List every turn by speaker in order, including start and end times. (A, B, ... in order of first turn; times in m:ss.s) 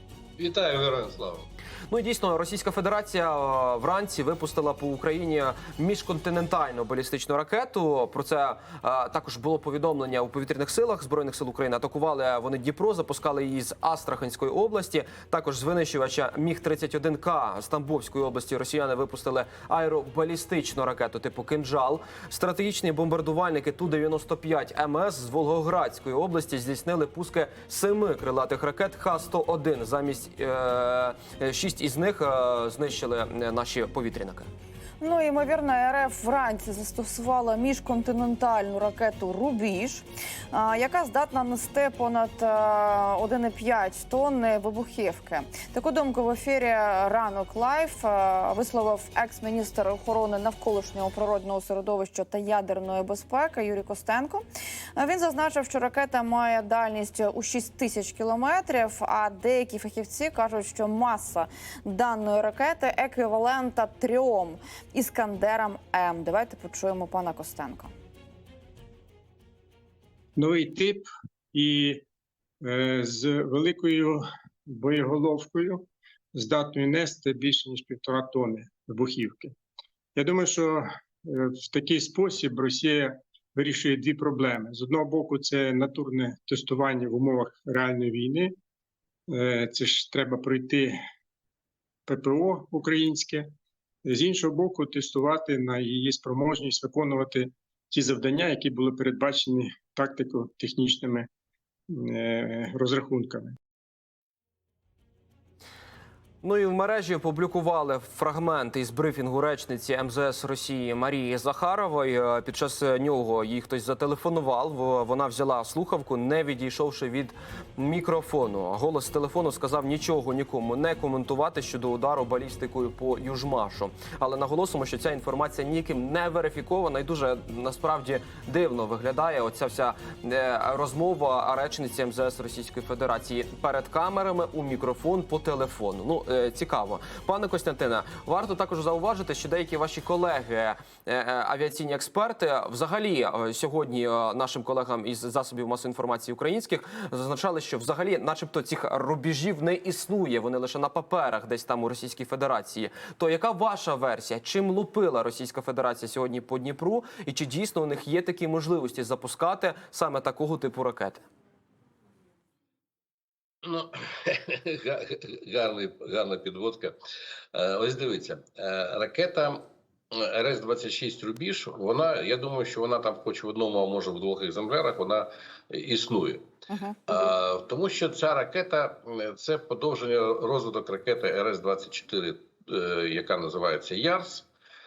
0:00.4-0:01.5 A
0:01.9-0:34.5 B
0:35.0-0:54.4 C
0:55.0-1:07.9 C
1:10.4-1:12.0 D
1:12.6-1:19.6 D
1:20.2-1:28.5 D
1:29.3-1:31.0 D
1:32.1-1:33.5 D
1:34.0-1:41.3 D
1:41.9-1:43.5 D
1:46.4-2:41.2 B
2:43.6-2:46.9 A
2:47.5-2:49.6 A
2:50.1-2:56.4 A
2:56.7-2:57.0 C
2:57.1-3:04.5 A